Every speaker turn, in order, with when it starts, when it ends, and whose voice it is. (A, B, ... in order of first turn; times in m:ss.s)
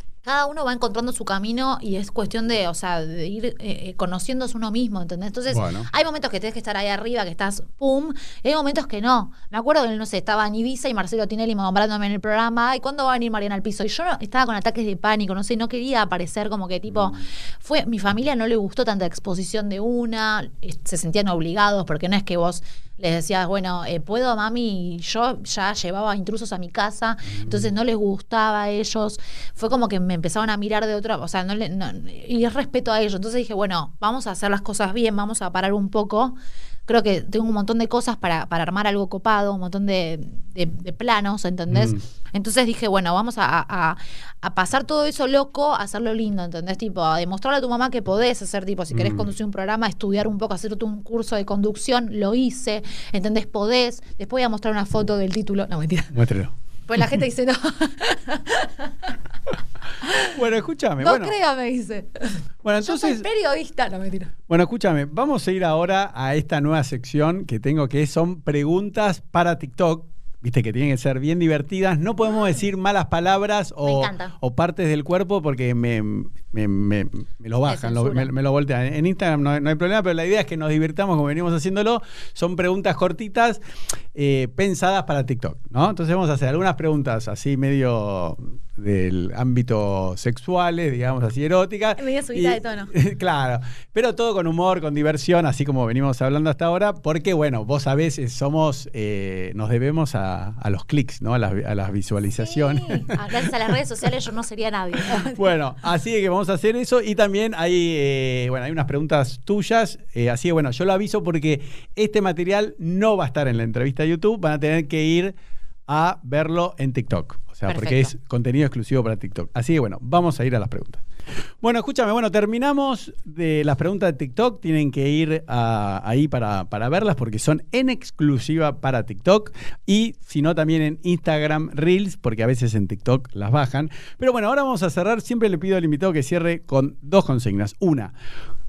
0:00.2-0:36.4 A
0:05.5-0:05.9 B
0:27.3-0:27.6 B
0:36.9-0:56.2 A
0:41.7-0:42.0 B
0:48.9-0:49.3 B
0:56.1-0:56.5 B
0:56.9-0:59.2 A
1:00.0-1:00.4 A
1:00.3-1:01.3 B
1:01.0-1:04.3 A
1:02.6-1:03.2 B
1:04.5-1:23.6 B
1:13.8-1:14.3 A
1:17.7-1:18.3 A
1:24.1-1:43.5 B
1:32.0-1:32.9 A
1:42.4-1:45.5 A
1:45.1-1:55.4 B
1:55.9-2:01.0 B
1:57.7-1:58.1 A
2:01.6-2:18.1 B